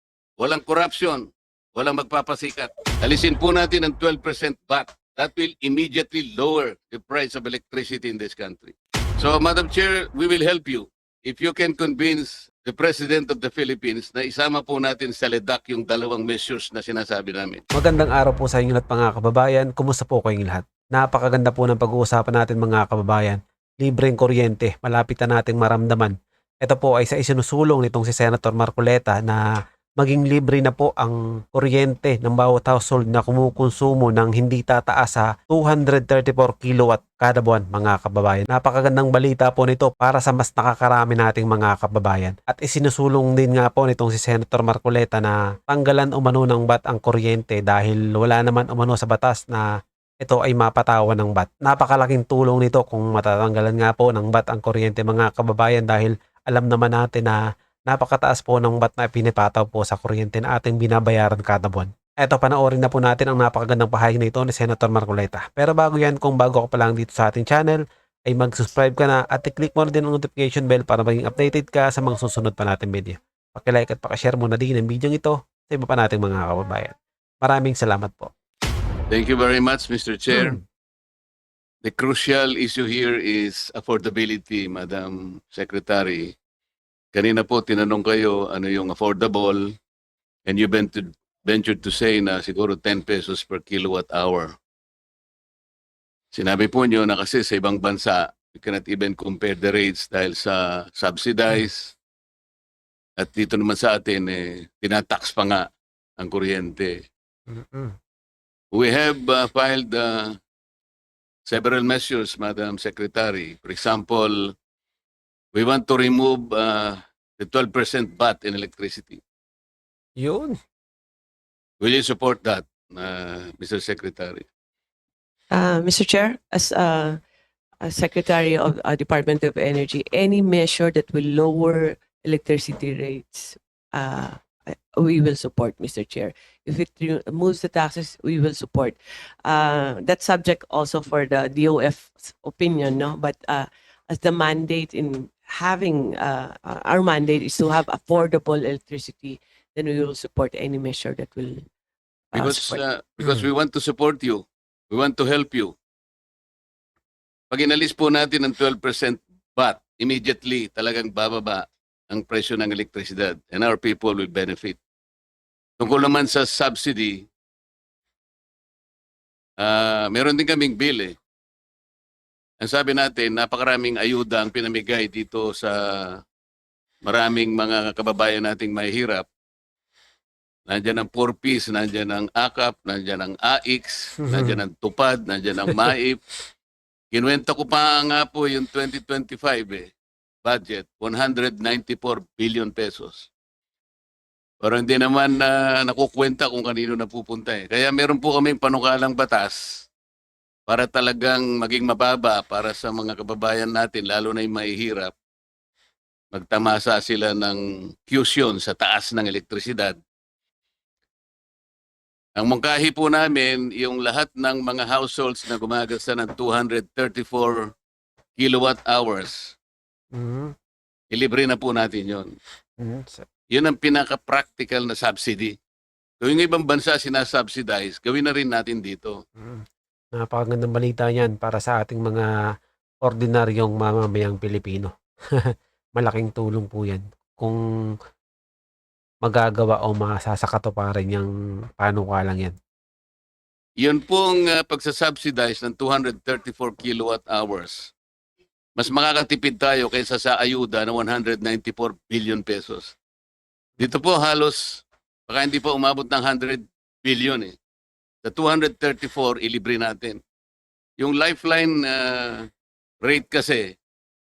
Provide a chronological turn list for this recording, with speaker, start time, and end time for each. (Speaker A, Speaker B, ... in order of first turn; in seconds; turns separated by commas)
Speaker A: 0.4-17.6, Speaker B: 17.7-29.4, Speaker B: 30.0-49.7, Speaker B: 50.2-78.3, Speaker A: 79.1-80.6, Speaker B: 80.3-80.6, Speaker A: 81.8-86.3, Speaker A: 87.1-89.7, Speaker A: 90.5-94.5, Speaker A: 96.3-102.0, Speaker A: 103.2-105.7, Speaker A: 106.2-106.9, Speaker B: 107.5-108.0, Speaker A: 108.7-110.4, Speaker A: 111.5-114.5, Speaker A: 115.5-119.2, Speaker B: 120.2-120.6, Speaker A: 121.8-124.5, Speaker C: 125.5-127.2, Speaker C: 127.8-151.6, Speaker C: 152.3-152.8, Speaker A: 152.3-155.7, Speaker B: 153.2-153.5, Speaker A: 157.5-164.8, Speaker A: 165.8-167.2, Speaker A: 169.6-171.2, Speaker A: 172.6-176.2, Speaker A: 177.1-179.3, Speaker A: 180.7-186.2, Speaker B: 184.2-184.6, Speaker A: 187.1-189.9, Speaker A: 190.4-193.3, Speaker A: 194.6-199.9, Speaker A: 200.7-205.1, Speaker A: 206.3-210.0, Speaker A: 212.4-217.7, Speaker A: 218.4-219.6, Speaker B: 220.1-220.5, Speaker A: 221.1-222.3, Speaker B: 222.8-223.3, Speaker A: 223.5-225.6, Speaker A: 226.2-229.2, Speaker B: 229.4-229.6, Speaker B: 230.2-232.3, Speaker B: 233.0-237.6, Speaker B: 239.2-242.6, Speaker A: 243.8-247.9, Speaker A: 248.8-253.0, Speaker A: 253.8-257.6, Speaker A: 258.2-260.2, Speaker A: 261.0-262.5, Speaker A: 263.0-263.7